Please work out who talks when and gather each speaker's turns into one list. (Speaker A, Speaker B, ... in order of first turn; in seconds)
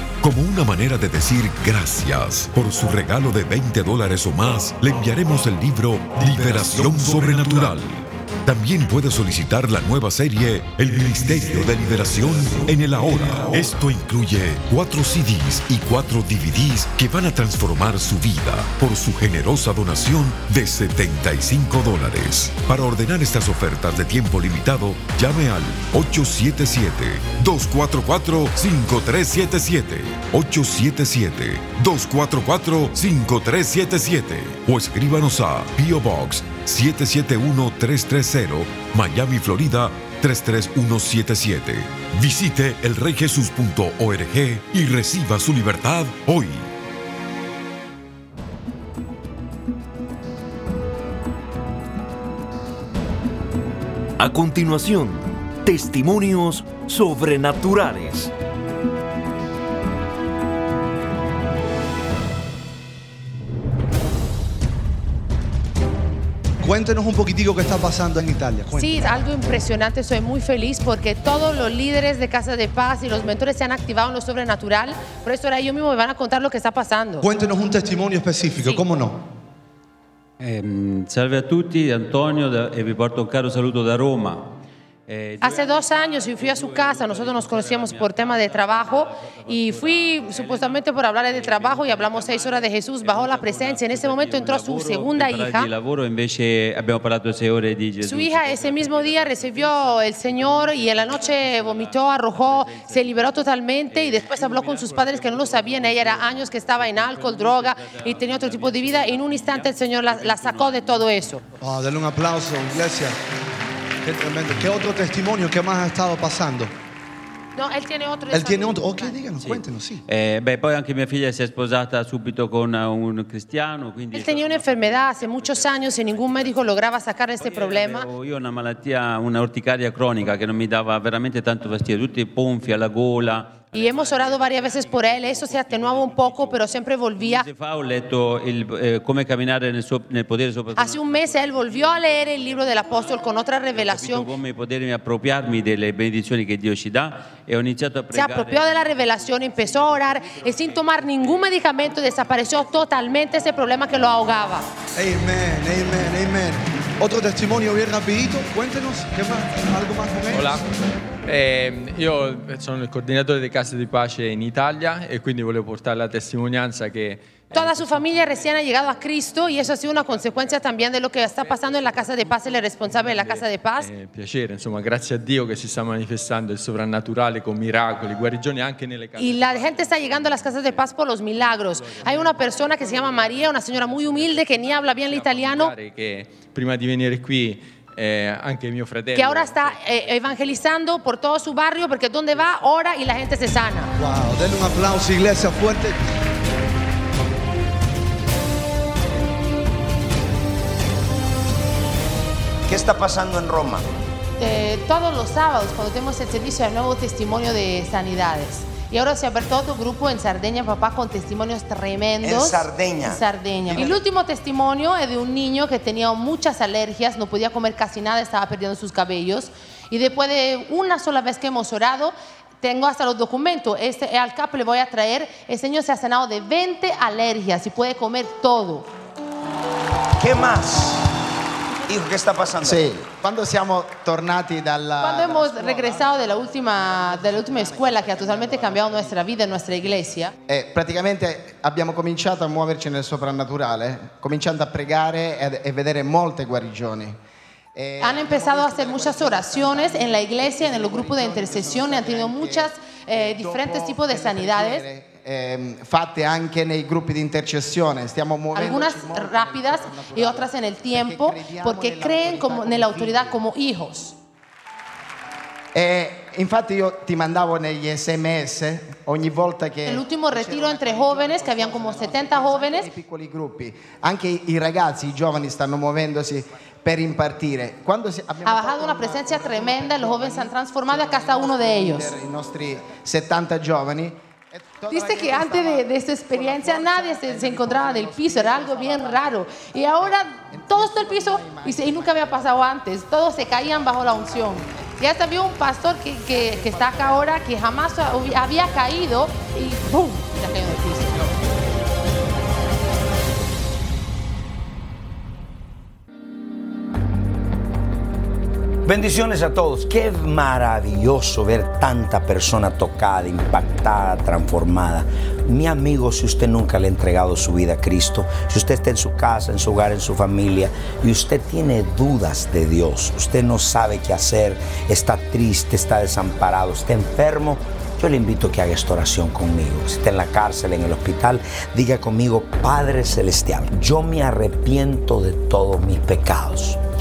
Speaker A: 0.2-46.7
Speaker B: 54.2-58.3
Speaker C: 66.6-69.2, 77.2-79.2, 111.6-113.2, 114.0-116.7, 118.3-120.0, 154.9-160.6, 194.0-196.0
Speaker D: 68.7-77.3, 85.4-95.7, 98.0-111.4, 117.5-119.5, 124.1-128.1, 133.7-137.5, 140.8-144.3, 148.1-154.7, 167.5-173.9, 179.2-185.7, 189.1-193.9, 204.4-228.9, 235.0-240.3, 248.0-254.8, 258.5-264.1, 269.9-272.9, 278.4-282.1, 284.9-301.2
Speaker E: 80.4-111.2, 120.1-152.7
Speaker F: 160.3-160.7, 161.2-168.4, 170.0-170.3, 171.5-180.9, 181.4-190.6
Speaker G: 202.7-203.9, 212.2-213.9, 230.2-231.1, 231.9-232.9, 308.8-336.8
Speaker H: 232.6-247.2, 247.7-263.4, 265.7-292.7, 296.3-297.3